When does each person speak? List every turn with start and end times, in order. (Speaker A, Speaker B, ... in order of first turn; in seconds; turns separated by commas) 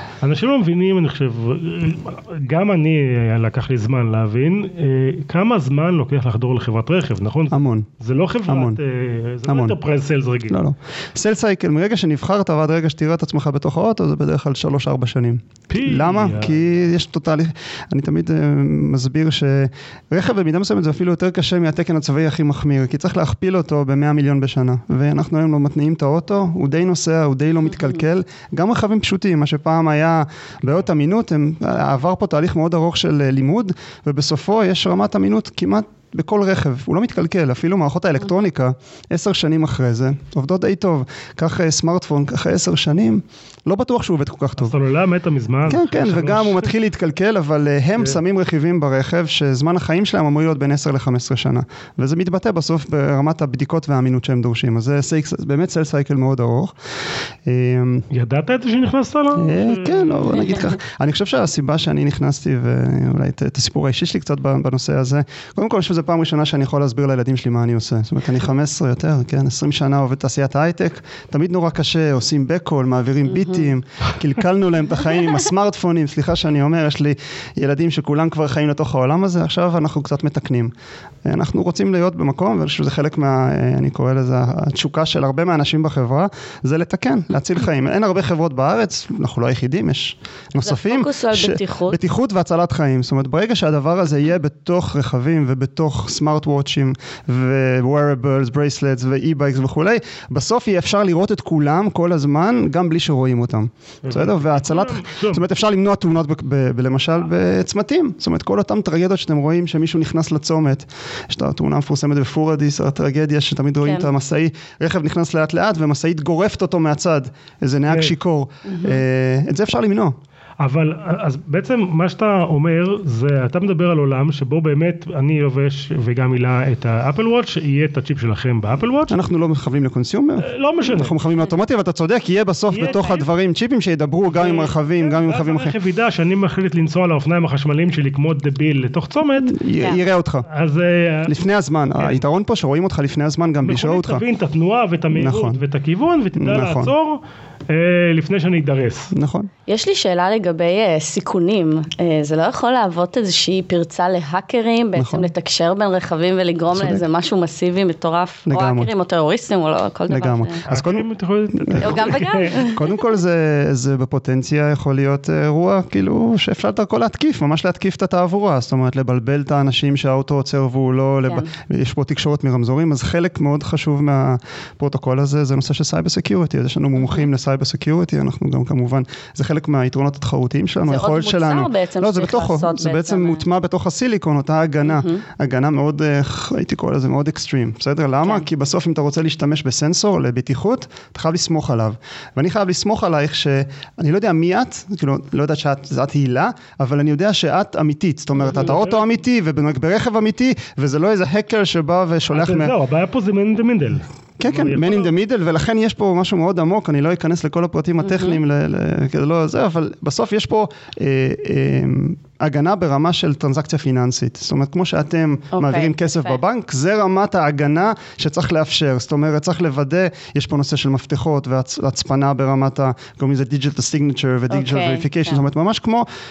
Speaker A: 0.2-10.6, Speaker B: 7.5-7.9, Speaker B: 8.5-8.8, Speaker B: 9.5-9.8, Speaker B: 10.5-44.8, Speaker A: 15.7-16.6, Speaker A: 44.6-46.7, Speaker B: 45.7-56.8, Speaker B: 57.5-58.1, Speaker A: 58.1-60.5, Speaker B: 59.4-80.7, Speaker B: 81.2-120.2, Speaker C: 90.6-92.0, Speaker A: 104.0-105.5, Speaker A: 117.9-118.1, Speaker C: 118.7-119.0, Speaker A: 120.6-129.2, Speaker B: 129.1-135.7, Speaker A: 130.4-131.2, Speaker A: 132.7-133.2, Speaker A: 134.3-139.6, Speaker B: 139.4-140.5, Speaker A: 140.5-141.3, Speaker B: 141.2-144.2, Speaker A: 143.6-149.1, Speaker B: 145.1-145.6, Speaker B: 146.4-146.9, Speaker B: 149.1-149.5, Speaker C: 149.7-160.6, Speaker B: 155.0-155.3, Speaker B: 156.7-157.0, Speaker B: 158.5-158.9, Speaker B: 160.1-202.8, Speaker A: 160.7-162.6, Speaker C: 161.8-163.0, Speaker C: 180.8-183.4, Speaker C: 184.8-185.2, Speaker A: 198.4-199.0, Speaker A: 202.3-205.1, Speaker B: 204.4-226.1, Speaker C: 208.0-208.4, Speaker C: 215.5-216.4, Speaker C: 224.5-225.4